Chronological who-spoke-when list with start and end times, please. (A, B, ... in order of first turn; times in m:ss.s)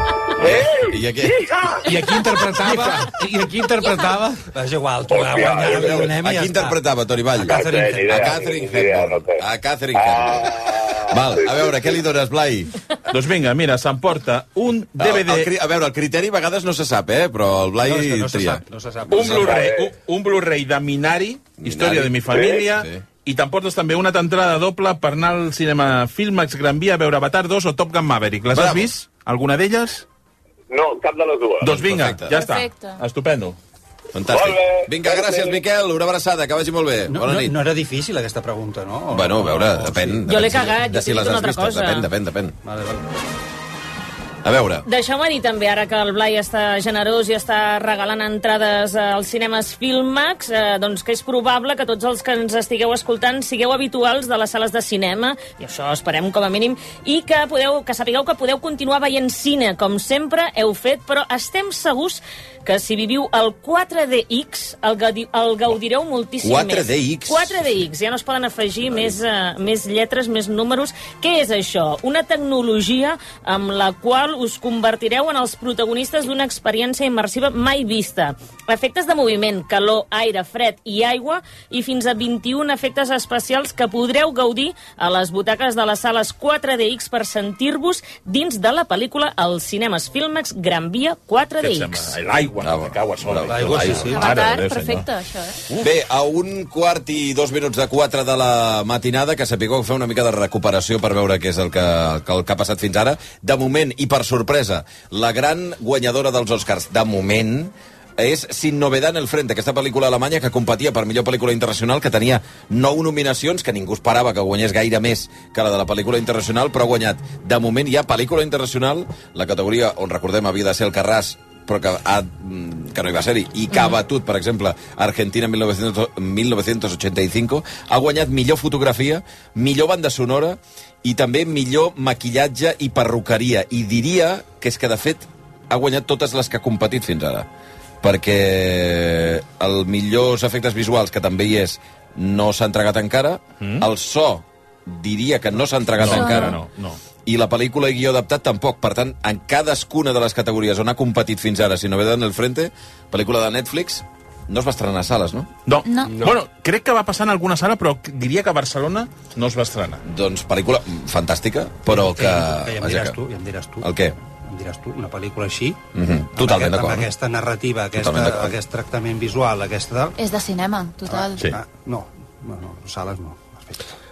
0:00.4-0:01.9 A
0:00.4-0:01.4 B
0:01.8-0:04.4 C
0:02.6-0:03.0 D
0:04.5-0:06.8 D
0:05.1-0:06.1 A
0:05.6-0:12.7 B
0:07.4-0:08.3 D
0:07.5-0:09.4 A
0:09.9-0:12.0 A
0:13.1-0:15.5 E
0:15.0-0:19.6 B
0:17.8-0:19.6 D
0:19.1-0:30.0 E
0:19.4-0:19.9 A
0:21.6-0:23.0 B
0:22.3-0:22.6 A
0:28.5-0:28.9 B
0:30.7-0:31.7 A
0:31.6-0:33.6 E
0:31.7-0:32.4 B
0:32.3-0:33.0 F
0:34.1-0:37.6 B
0:34.3-0:35.6 A
0:37.1-0:40.2 D
0:39.1-0:42.6 B
0:40.3-0:42.1 G
0:42.6-0:43.0 D
0:44.4-0:44.8 B
0:44.8-1:32.2 G
1:06.4-1:07.6 B
1:31.6-1:35.1 E
1:32.6-1:34.2 B
1:33.5-1:34.3 D
1:34.0-1:35.6 F
1:35.8-2:17.5 B
2:18.0-2:26.6 B
2:23.6-2:23.9 E
2:26.0-2:27.0 E
2:26.0-2:26.6 F
2:27.2-2:35.5 B
2:35.6-2:40.0 E
2:35.8-2:36.2 F
2:36.0-2:36.4 C
2:40.0-2:43.2 B
2:41.9-2:43.9 D
2:43.8-2:44.1 B
2:44.4-2:45.8 D
2:45.9-2:47.1 B
2:46.4-2:50.2 D
2:48.0-2:48.6 B
2:50.2-2:51.5 F
2:51.1-2:54.0 D